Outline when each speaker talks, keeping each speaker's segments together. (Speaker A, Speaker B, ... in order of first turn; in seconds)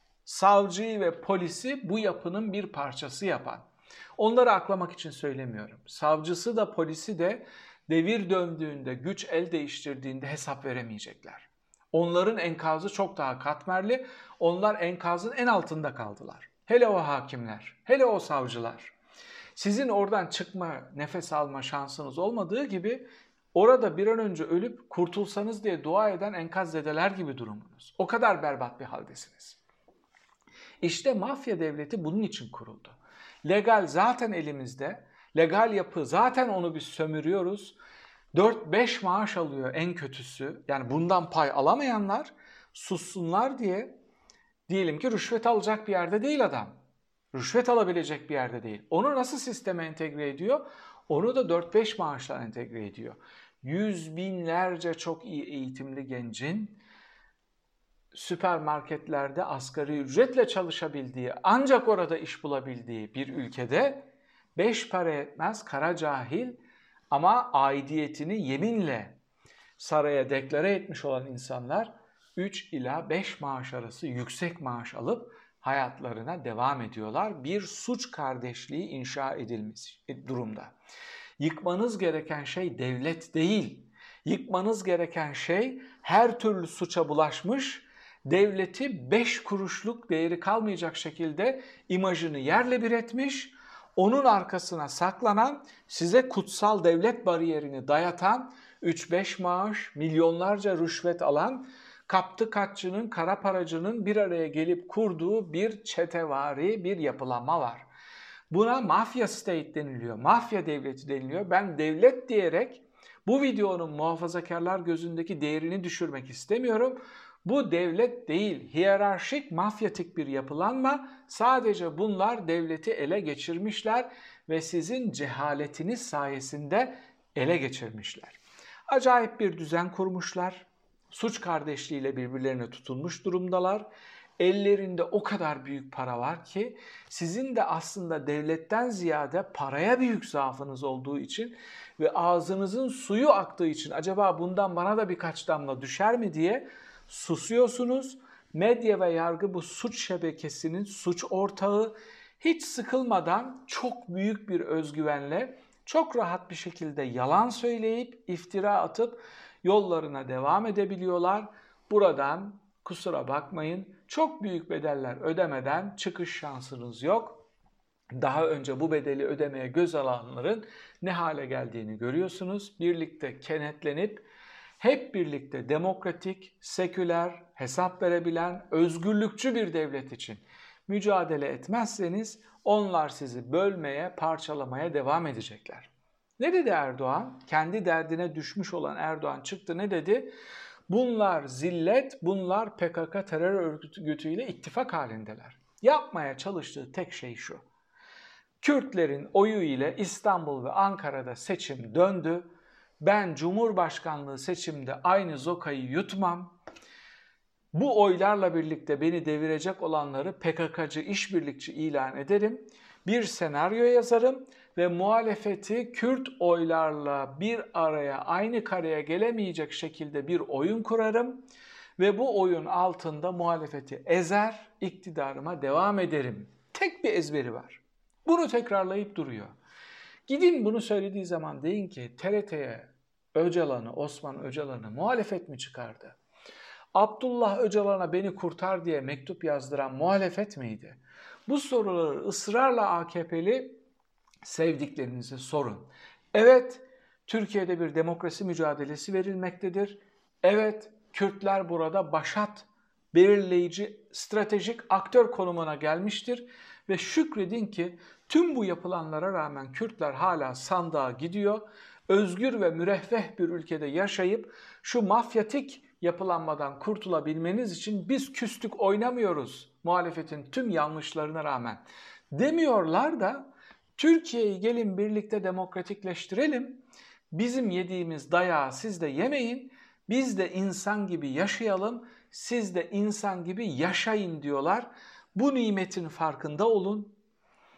Speaker A: 0.2-18.9, 19.6-29.6, 30.8-37.8, 38.3-44.0, 44.7-46.8, 47.3-56.8, 58.1-66.6, 67.1-69.2, 69.8-80.7, 81.4-107.9, 108.5-133.9, 134.4-167.4, 168.1-174.2, 174.8-190.3, 190.9-197.6, 198.6-206.6, 207.7-221.4, 222.0-229.5, 230.3-236.2, 236.9-243.8, 244.4-287.2